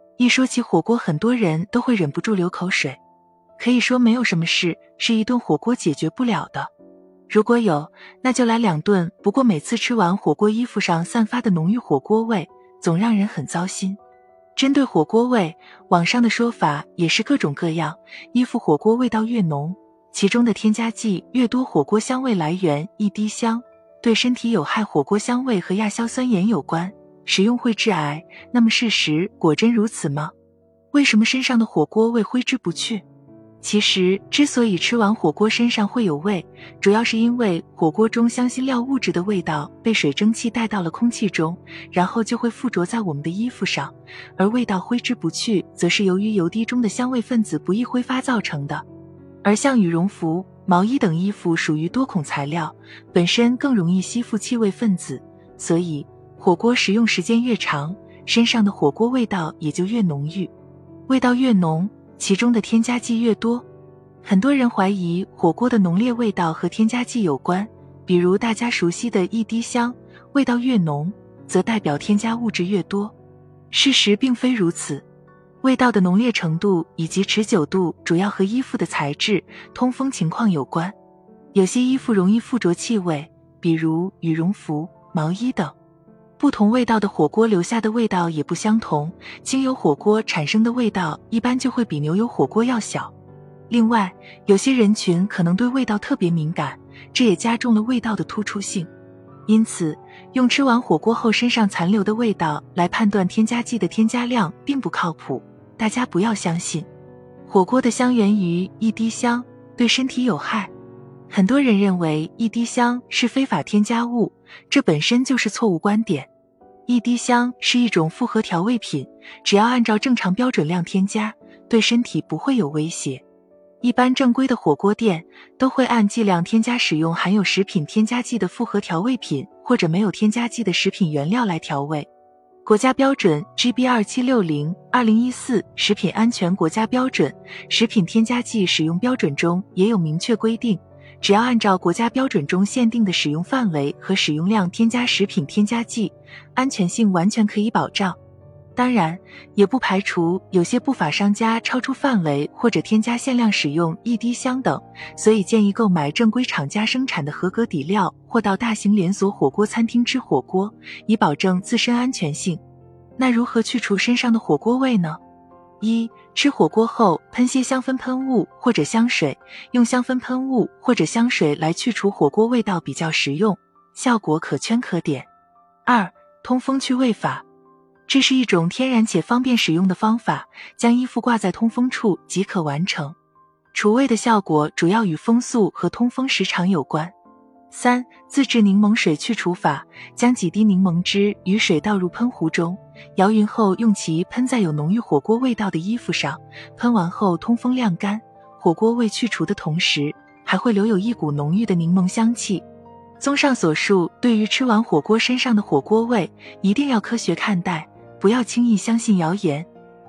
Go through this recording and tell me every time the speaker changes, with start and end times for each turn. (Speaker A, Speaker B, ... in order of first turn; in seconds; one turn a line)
Speaker A: 0.2-3.0
Speaker A: 3.6-6.7
Speaker A: 7.3-14.0
Speaker A: 14.6-30.3
Speaker A: 30.9-33.0
Speaker A: 33.6-48.8
Speaker A: 49.4-60.5
Speaker A: 61.1-63.6
Speaker A: 64.2-73.1
Speaker A: 73.7-75.0
Speaker A: 75.6-80.9
Speaker A: 81.5-85.7
Speaker A: 86.4-93.1
Speaker A: 93.7-98.9
Speaker A: 99.5-106.9
Speaker A: 107.5-110.7
Speaker A: 111.3-116.3
Speaker A: 116.9-123.2
Speaker A: 123.8-132.1
Speaker A: 132.6-148.2
Speaker A: 148.8-162.6
Speaker A: 163.2-165.2
Speaker A: 165.8-175.3
Speaker A: 175.8-177.4
Speaker A: 178.1-183.2
Speaker A: 183.7-187.1
Speaker A: 187.7-202.7
Speaker A: 203.2-209.7